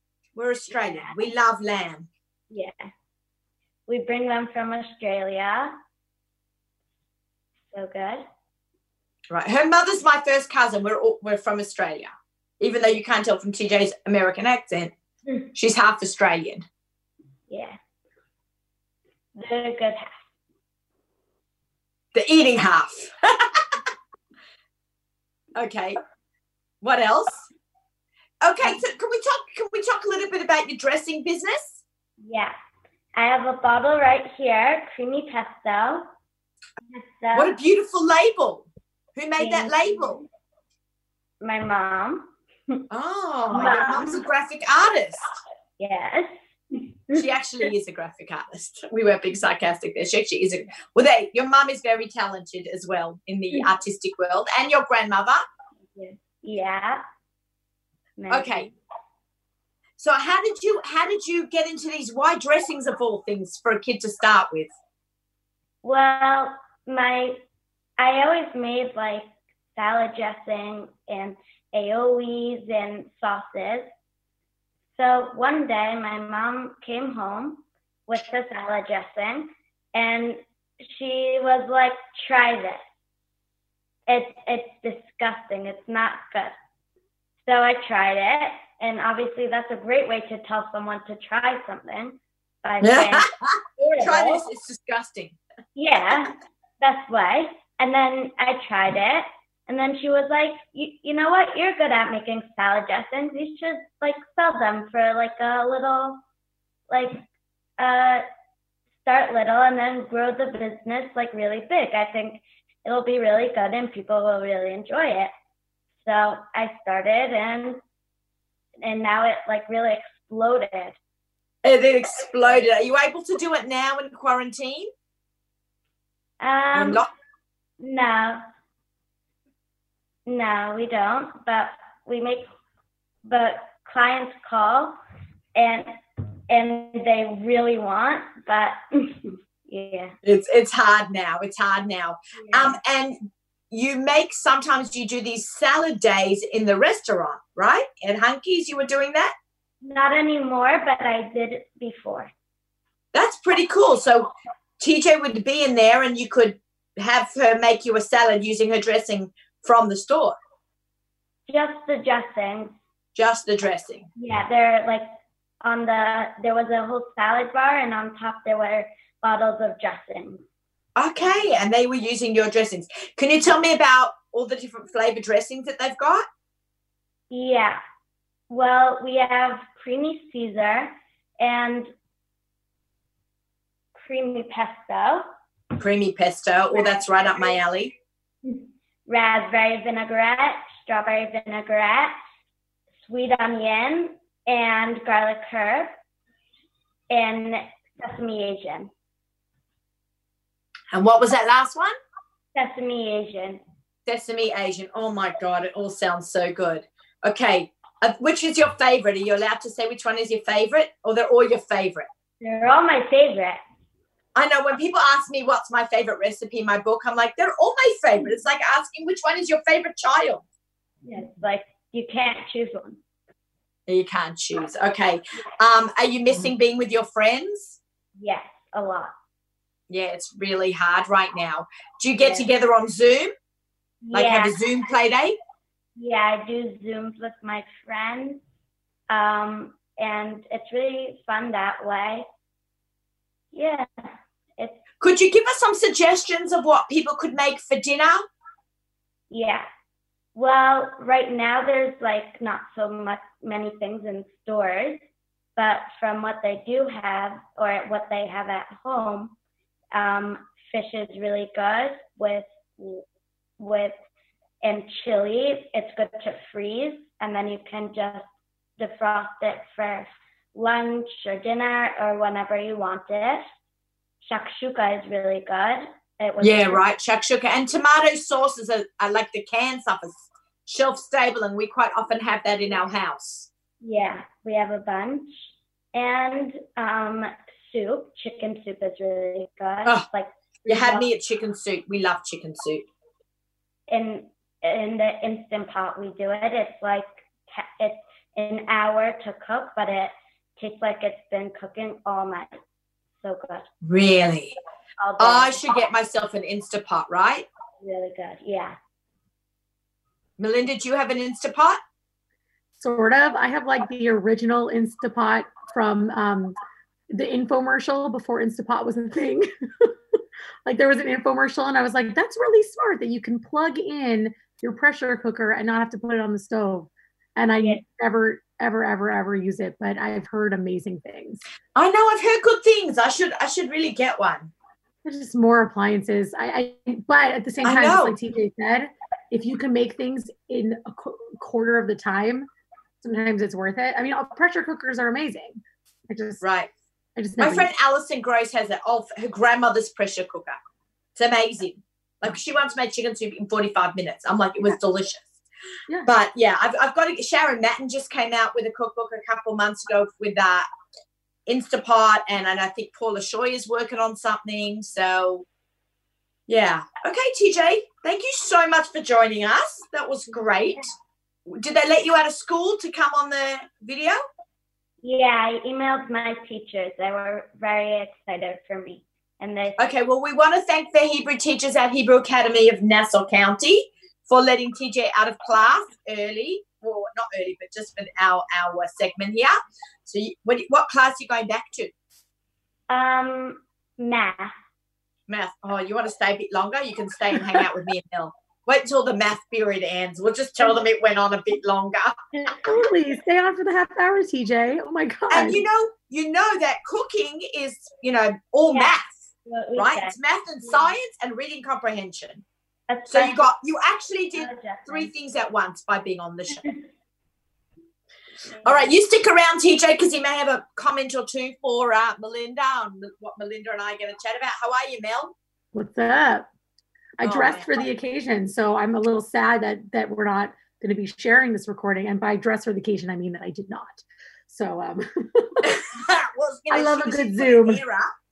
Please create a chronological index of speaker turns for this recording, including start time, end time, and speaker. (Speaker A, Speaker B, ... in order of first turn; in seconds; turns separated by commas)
Speaker A: 0.3-2.1, Speaker B: 0.8-1.3, Speaker B: 2.5-2.9, Speaker B: 3.9-5.7, Speaker B: 7.7-8.2, Speaker A: 9.3-14.9, Speaker A: 15.6-16.7, Speaker B: 17.5-17.8, Speaker B: 19.4-20.2, Speaker A: 22.1-23.8, Speaker A: 25.6-26.0, Speaker A: 26.8-27.5, Speaker A: 28.4-31.8, Speaker B: 32.2-32.5, Speaker B: 33.2-36.1, Speaker B: 36.9-37.5, Speaker A: 37.3-38.6, Speaker A: 39.2-40.2, Speaker B: 39.4-40.3, Speaker B: 41.4-42.8, Speaker A: 42.9-45.3, Speaker B: 43.5-44.2, Speaker B: 45.8-47.7, Speaker A: 47.1-55.4, Speaker B: 55.9-57.0, Speaker B: 58.2-58.7, Speaker A: 58.3-58.7, Speaker A: 60.0-64.7, Speaker B: 65.8-67.4, Speaker B: 68.0-73.9, Speaker B: 75.0-82.8, Speaker B: 84.1-86.5, Speaker B: 87.5-94.4, Speaker A: 92.8-95.4, Speaker B: 95.8-106.2, Speaker B: 106.9-107.2, Speaker B: 107.8-108.2, Speaker B: 109.0-115.3, Speaker B: 116.0-117.8, Speaker B: 118.8-121.0, Speaker A: 121.6-124.9, Speaker B: 126.4-127.0, Speaker A: 126.7-127.1, Speaker B: 127.8-128.4, Speaker B: 130.3-132.5, Speaker B: 133.2-135.0, Speaker B: 135.6-135.9, Speaker B: 136.5-140.2, Speaker A: 140.2-143.2, Speaker B: 142.4-142.8, Speaker A: 143.7-149.3, Speaker B: 149.8-152.3, Speaker A: 153.1-160.4, Speaker B: 161.5-162.8, Speaker A: 163.2-164.1, Speaker B: 164.2-170.4, Speaker A: 171.0-176.2, Speaker B: 177.3-177.8, Speaker B: 178.5-181.9, Speaker B: 184.0-185.3, Speaker A: 185.8-187.9, Speaker B: 186.7-187.6, Speaker B: 188.4-192.2, Speaker B: 193.1-195.9, Speaker B: 197.1-198.9, Speaker A: 200.9-201.9, Speaker B: 202.6-203.6, Speaker A: 204.1-212.1, Speaker B: 212.4-213.6, Speaker A: 214.4-220.4, Speaker B: 221.0-223.0, Speaker A: 223.9-227.8, Speaker B: 228.2-229.1, Speaker A: 229.9-233.3, Speaker B: 232.2-232.5, Speaker B: 234.1-234.6, Speaker A: 234.1-235.4, Speaker B: 236.0-238.4, Speaker B: 239.1-242.3, Speaker B: 243.5-244.8, Speaker A: 245.0-248.2, Speaker B: 249.3-249.7, Speaker B: 250.3-255.0, Speaker B: 255.6-259.4, Speaker B: 259.9-263.1, Speaker B: 263.6-263.9, Speaker B: 264.6-273.4, Speaker B: 274.2-276.8, Speaker A: 276.4-283.5, Speaker B: 283.8-291.1, Speaker A: 290.7-292.9, Speaker B: 293.9-302.6, Speaker B: 303.2-303.7, Speaker A: 303.8-304.6, Speaker B: 305.0-305.6, Speaker A: 305.2-307.5, Speaker B: 307.8-308.8, Speaker A: 310.4-311.8, Speaker C: 312.8-316.6, Speaker C: 317.1-331.4, Speaker A: 331.8-334.5, Speaker C: 335.1-342.5, Speaker A: 337.6-338.1, Speaker C: 343.0-346.4, Speaker A: 346.4-346.7, Speaker C: 347.2-347.7, Speaker A: 347.4-350.6, Speaker A: 351.2-355.4, Speaker A: 356.1-360.7, Speaker A: 361.5-365.5, Speaker A: 366.5-370.9, Speaker A: 371.5-374.2, Speaker B: 375.0-379.8, Speaker A: 379.8-391.9, Speaker B: 392.9-394.5, Speaker A: 395.3-402.2, Speaker C: 402.4-405.6, Speaker A: 405.3-409.2, Speaker B: 409.5-410.1, Speaker A: 409.8-412.4, Speaker B: 410.7-410.9, Speaker B: 412.9-413.5, Speaker A: 413.1-416.6, Speaker B: 414.4-415.1, Speaker B: 418.5-418.9, Speaker A: 418.6-425.3, Speaker C: 425.7-426.5, Speaker C: 427.2-435.8, Speaker A: 427.2-427.8, Speaker A: 435.6-438.1, Speaker C: 436.7-437.8